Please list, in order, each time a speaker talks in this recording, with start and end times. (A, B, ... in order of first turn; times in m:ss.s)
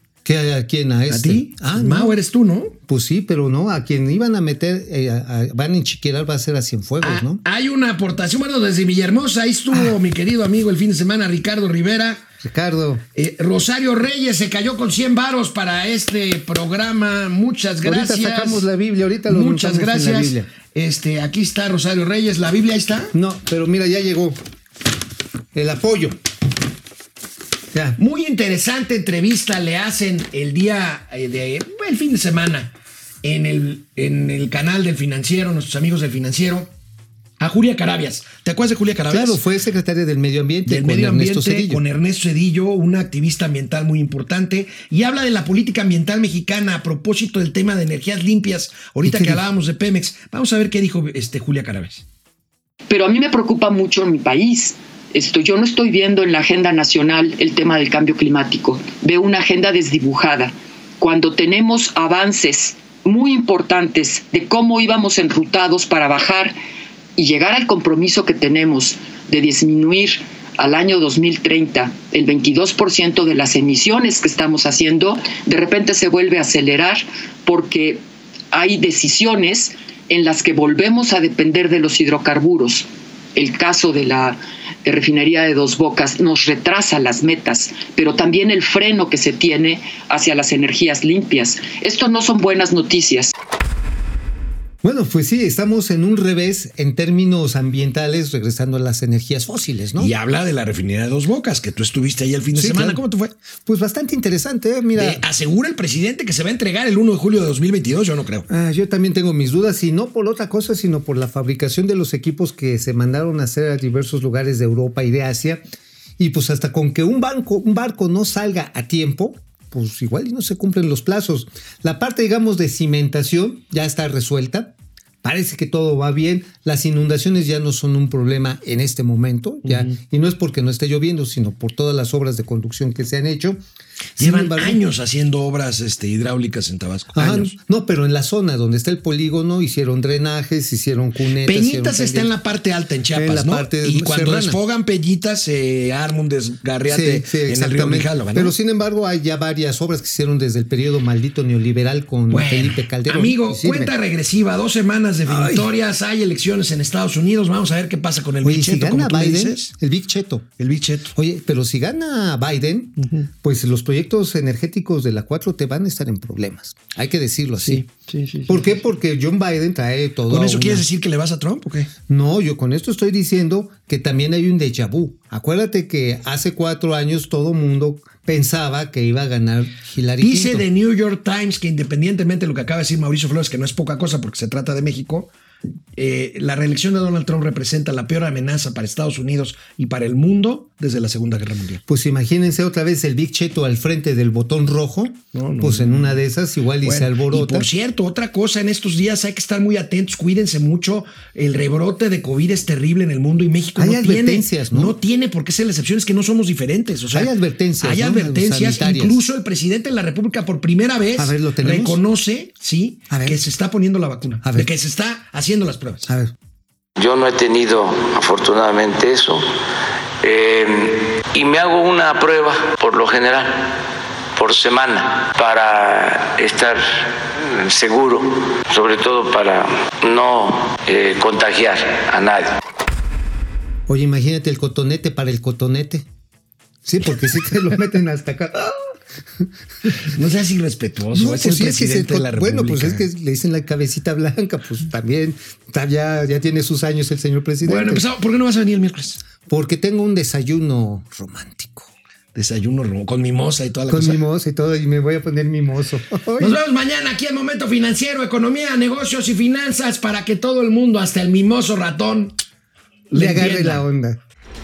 0:00.2-0:02.2 A
0:01.1-0:02.8 B
0:02.8-0:07.4 A
0:07.0-0:12.3 B
0:12.4-0:13.0 A
0:13.2-0:18.7 B
0:17.8-0:20.5 A
0:19.3-0:23.1 B
0:23.1-0:24.4 A
0:25.5-0:26.2 A
0:27.7-0:28.0 A
0:28.0-0:36.7 B
0:37.4-0:39.4 B
0:39.1-0:41.8 A
0:40.7-0:52.0 B
0:49.0-0:49.4 A
0:52.9-1:06.6 C
1:07.2-1:18.0 C
1:18.5-1:33.3 C
1:34.8-1:40.1 A
1:40.0-1:43.3 B
1:42.6-1:43.0 A
1:43.6-1:45.2 A
1:45.0-1:48.5 B
1:48.5-1:55.6 A
1:56.2-2:13.6 A
2:09.6-2:10.0 B
2:14.2-2:14.8 A
2:14.2-2:17.5 B
2:17.1-2:22.3 A
2:21.4-2:28.6 B
2:23.2-2:24.6 A
2:26.9-2:33.9 A
2:32.3-2:39.7 B
2:35.3-2:35.7 A
2:38.4-2:40.5 A
2:40.6-2:41.1 B
2:41.1-2:47.8 A
2:43.0-2:43.3 B
2:47.6-2:48.8 B
2:48.5-2:50.8 A
2:50.3-2:51.9 B
2:52.1-3:00.7 A
3:00.2-3:05.3 B
3:06.0-3:11.8 B
3:11.9-3:17.7 A
3:15.3-3:16.2 B
3:16.8-3:36.1 B
3:23.8-3:25.0 A
3:27.1-3:29.2 A
3:31.2-3:32.0 A
3:33.1-3:33.4 A
3:34.4-3:34.7 A
3:36.1-3:36.3 A
3:37.0-3:39.4 D
3:40.2-3:43.7 D
3:44.4-3:52.6 D
3:53.9-3:56.1 A
3:56.8-4:00.0 A
3:59.9-4:03.1 B
4:01.1-4:08.0 A
4:07.6-4:09.2 B
4:09.5-4:11.9 A
4:12.4-4:14.2 B
4:13.9-4:16.6 A
4:16.4-4:22.4 B
4:23.1-4:23.8 B
4:23.1-4:24.2 A